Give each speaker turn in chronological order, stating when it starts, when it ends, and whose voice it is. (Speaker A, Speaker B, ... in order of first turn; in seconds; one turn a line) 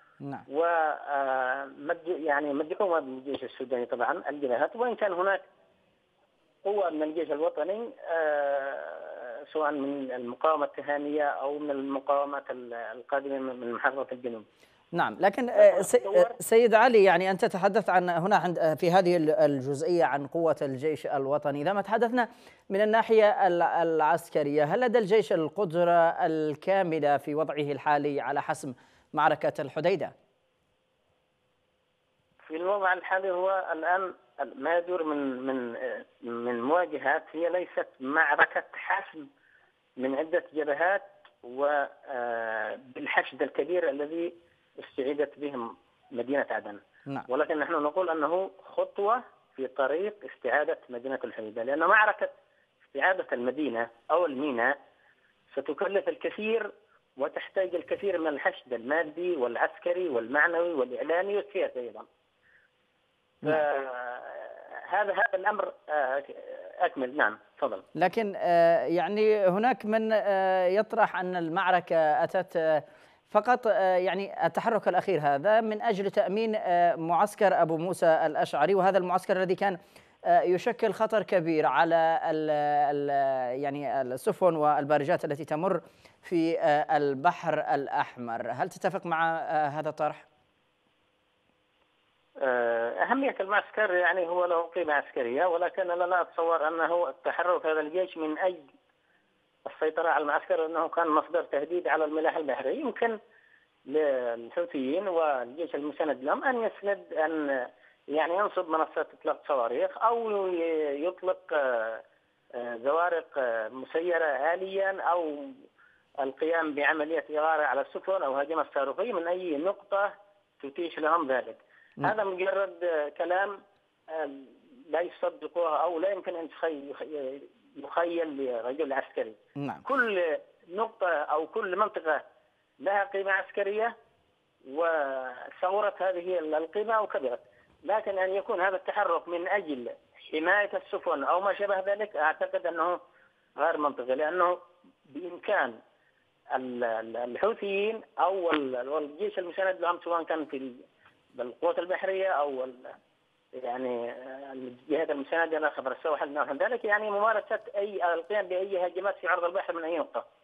Speaker A: 0.5-5.4
Speaker A: 6.6-14.4
Speaker B: 14.9-30.1
Speaker A: 15.6-16.4
Speaker A: 32.5-39.3
Speaker A: 40.0-52.3
Speaker A: 52.9-54.8
Speaker A: 55.5-62.1
Speaker A: 63.4-67.8
Speaker B: 67.9-90.2
Speaker A: 92.4-98.7
Speaker A: 99.7-103.2
Speaker A: 103.9-112.0
Speaker A: 112.5-115.5
Speaker A: 116.2-123.6
Speaker A: 124.1-132.2
Speaker B: 129.6-129.8
Speaker A: 132.8-133.9
Speaker A: 134.7-143.0
Speaker A: 143.6-144.6
Speaker A: 145.1-145.8
Speaker A: 146.5-150.8
Speaker A: 151.3-152.9
Speaker A: 153.6-160.2